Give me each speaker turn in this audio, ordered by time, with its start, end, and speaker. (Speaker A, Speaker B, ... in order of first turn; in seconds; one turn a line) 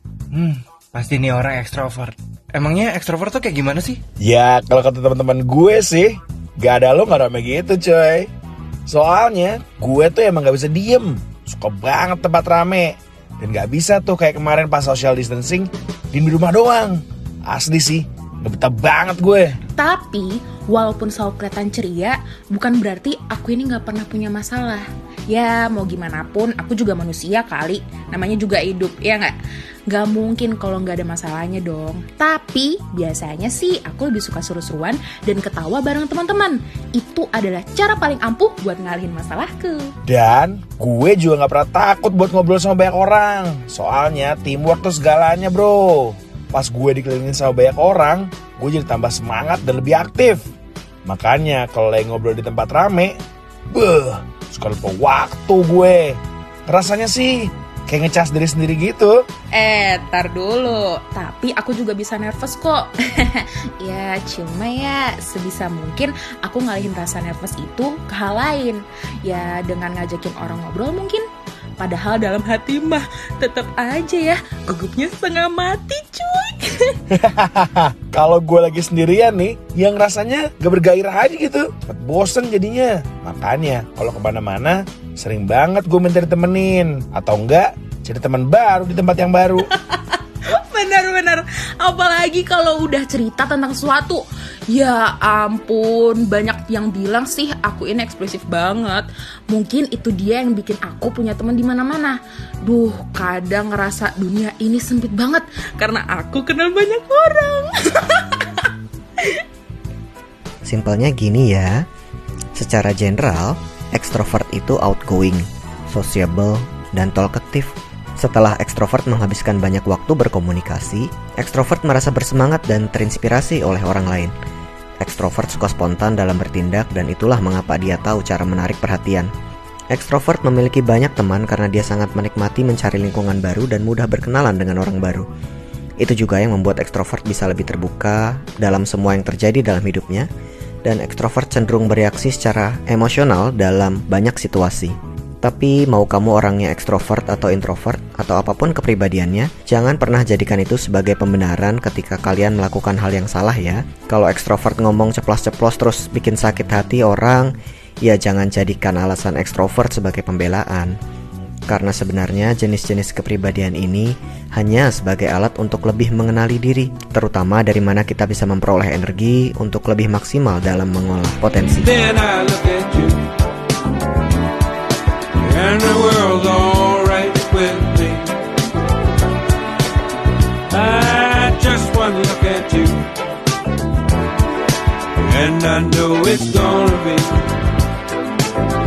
Speaker A: 0.3-4.0
Speaker B: 4.2-8.3
Speaker B: 8.9-19.6
Speaker C: 19.7-29.3
Speaker C: 29.9-39.9
Speaker B: 40.0-50.4
Speaker B: 51.0-53.2
Speaker B: 53.7-59.2
Speaker C: 59.5-71.2
Speaker C: 71.8-77.0
Speaker B: 77.1-89.7
Speaker C: 89.7-108.7
Speaker D: 110.6-111.8
Speaker D: 112.5-124.3
Speaker D: 125.0-129.3
Speaker D: 129.9-135.2
Speaker D: 136.0-140.3
Speaker D: 140.8-157.5
Speaker D: 158.0-160.9
Speaker D: 161.7-172.0
Speaker E: 171.8-173.2
Speaker E: 175.4-178.3
Speaker E: 180.7-183.1
Speaker E: 185.2-187.4